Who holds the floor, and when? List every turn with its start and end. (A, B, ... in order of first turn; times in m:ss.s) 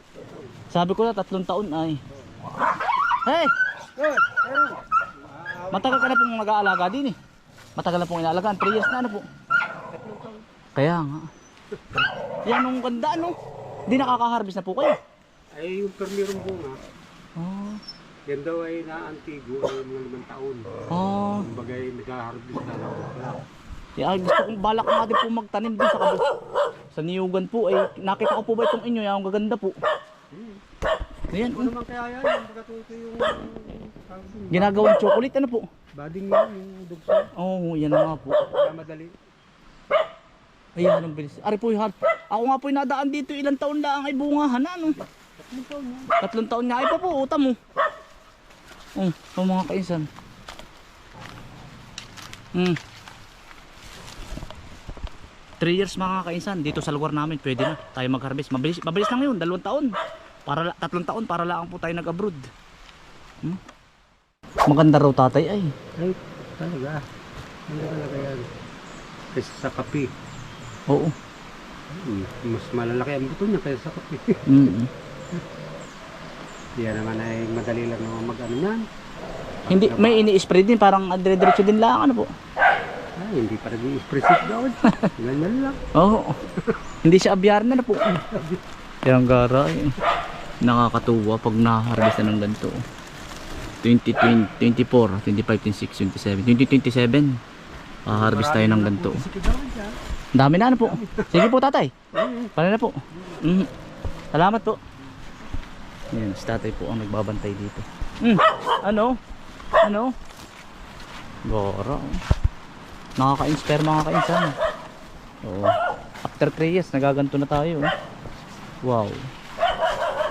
0:00.1-0:00.5 A
0:00.7-0:02.0 B
0:02.1-0:02.4 A
0:03.2-0:03.5 B
0:04.0-0:05.9 A
0:05.7-0:07.2 B
0:07.8-0:09.2 B
0:09.9-0:10.4 A
0:10.8-0:11.3 B
0:12.5-0:13.3 B
0:13.9-0:15.0 B
0:15.6-0:16.8 A
0:17.4-0:17.8 B
0:18.3-0:20.7 A
0:20.9-0:21.5 B
0:21.4-0:23.4 A
0:24.0-0:26.2 B
0:26.9-0:29.8 B
0:30.3-0:30.6 A
0:31.3-0:31.7 B
0:31.5-0:34.9 A
0:34.5-0:35.6 B
0:36.0-0:37.3 A
0:37.4-0:38.4 B
0:38.5-0:39.2 A
0:40.8-0:45.0 B
0:45.4-0:46.1 A
0:46.2-0:47.6 B
0:49.0-0:50.1 B
0:55.6-0:59.9 B
1:00.5-1:02.5 B
1:04.7-1:05.7 B
1:06.0-1:07.0 A
1:07.7-1:08.4 A
1:09.3-1:10.1 A
1:10.9-1:11.2 B
1:11.9-1:14.4 A
1:14.5-1:14.9 B
1:16.8-1:18.8 A
1:19.7-1:22.3 B
1:19.7-1:20.2 A
1:23.2-1:25.8 A
1:24.8-1:25.1 B
1:25.9-1:26.4 B
1:27.0-1:28.3 B
1:28.3-1:28.6 A
1:29.1-1:30.0 B
1:30.6-1:32.8 B
1:33.8-1:37.4 B
1:38.1-1:39.2 B
1:38.1-1:40.0 A
1:40.4-1:41.9 B
1:42.2-1:42.5 A
1:42.6-1:43.7 B
1:44.3-1:44.8 B
1:46.1-1:49.2 B
1:49.8-1:50.1 B
1:51.5-1:52.2 B
1:53.2-1:54.6 B
1:55.4-1:57.9 B
1:58.8-1:59.2 B